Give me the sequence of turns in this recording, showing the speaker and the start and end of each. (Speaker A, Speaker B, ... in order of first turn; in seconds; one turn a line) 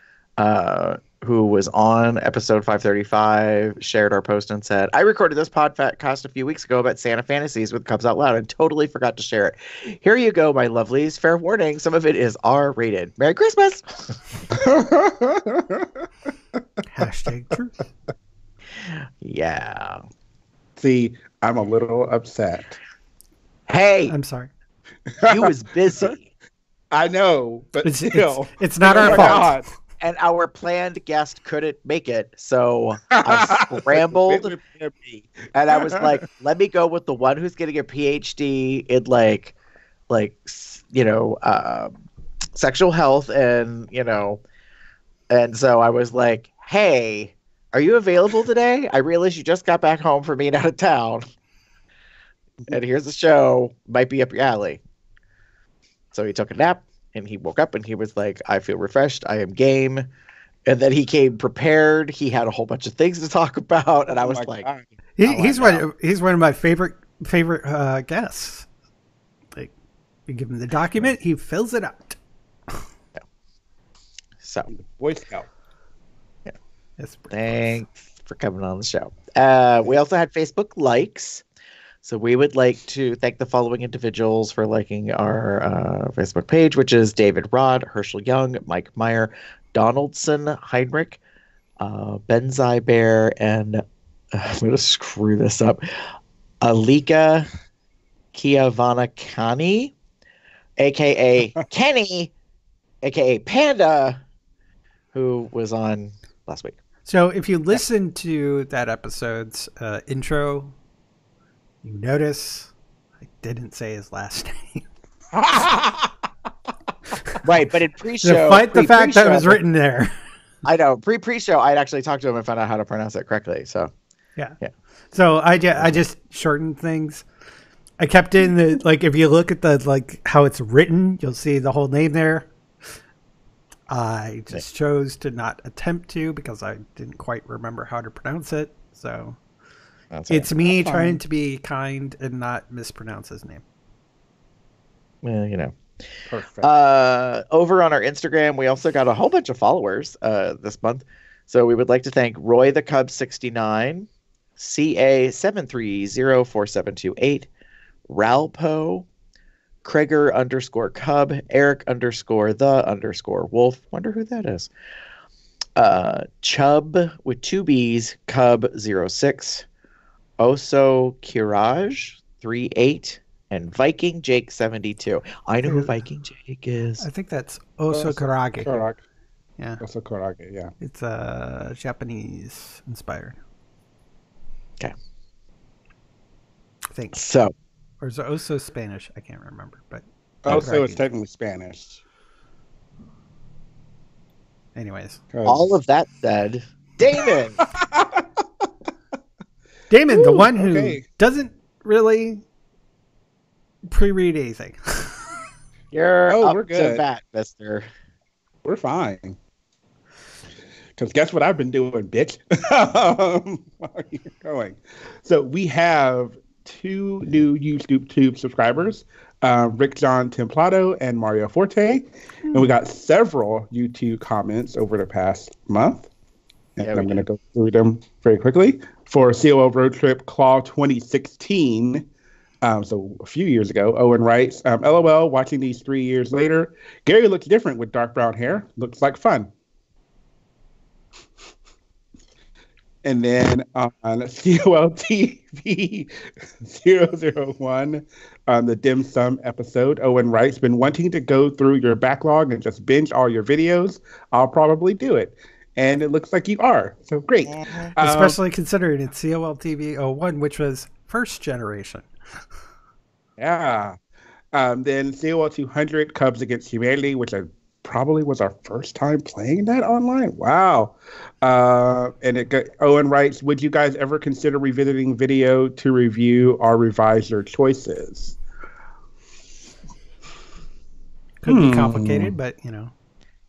Speaker A: 0.4-14.2
Speaker B: 14.5-16.0
Speaker C: 16.9-17.8
Speaker A: 18.8-20.0
Speaker B: 20.8-22.8
Speaker A: 23.7-24.1
Speaker C: 24.1-24.5
Speaker B: 25.1-26.1
Speaker A: 25.2-26.3
Speaker B: 26.9-29.6
Speaker C: 27.8-29.5
Speaker A: 28.9-29.5
Speaker A: 30.0-34.5
Speaker B: 33.1-36.1
Speaker A: 35.5-39.5
Speaker A: 40.1-42.0
Speaker A: 42.5-44.4
Speaker A: 45.3-51.2
Speaker A: 52.7-54.8
Speaker A: 56.1-60.1
Speaker A: 60.6-64.7
Speaker B: 64.1-64.9
Speaker C: 65.2-68.7
Speaker A: 65.2-65.8
Speaker C: 70.3-72.2
Speaker A: 74.4-74.7
Speaker B: 74.7-75.5
Speaker C: 77.0-77.8
Speaker A: 77.3-81.4
Speaker A: 82.0-91.2
Speaker A: 91.8-96.0
Speaker A: 96.6-97.5
Speaker A: 98.3-99.9
Speaker A: 100.8-102.3
Speaker A: 103.0-104.2
Speaker A: 105.1-106.8
Speaker C: 107.0-110.7
Speaker C: 111.8-114.8
Speaker B: 115.3-116.1
Speaker A: 117.4-119.6
Speaker C: 118.2-120.1
Speaker A: 120.6-123.9
Speaker C: 125.1-127.2
Speaker C: 128.0-132.5
Speaker C: 133.9-139.4
Speaker A: 140.1-140.5
Speaker C: 140.3-143.6
Speaker B: 140.7-141.2
Speaker A: 145.2-145.7
Speaker B: 146.3-146.7
Speaker A: 146.6-154.1
Speaker A: 154.6-157.5
Speaker A: 158.1-159.1
Speaker A: 159.8-164.7
Speaker A: 165.8-169.7
Speaker A: 170.4-177.0
Speaker C: 175.6-175.9
Speaker C: 177.0-178.7
Speaker B: 177.9-179.0
Speaker B: 179.8-180.7
Speaker C: 180.8-183.4
Speaker C: 186.9-187.2
Speaker A: 187.1-187.5
Speaker C: 188.0-191.1
Speaker B: 190.4-192.0
Speaker C: 194.7-195.2
Speaker B: 195.3-195.7
Speaker A: 195.4-197.6
Speaker B: 197.8-198.2
Speaker C: 199.9-202.4
Speaker B: 200.1-201.0
Speaker C: 203.9-205.3
Speaker A: 205.9-207.9
Speaker B: 206.3-207.0
Speaker B: 208.6-209.4
Speaker B: 210.9-226.1
Speaker B: 226.8-232.1
Speaker A: 226.8-227.2
Speaker B: 232.6-239.5
Speaker B: 243.0-258.4
Speaker C: 258.0-262.1
Speaker B: 263.4-264.0
Speaker B: 264.5-278.4
Speaker C: 281.4-282.9
Speaker B: 281.5-282.3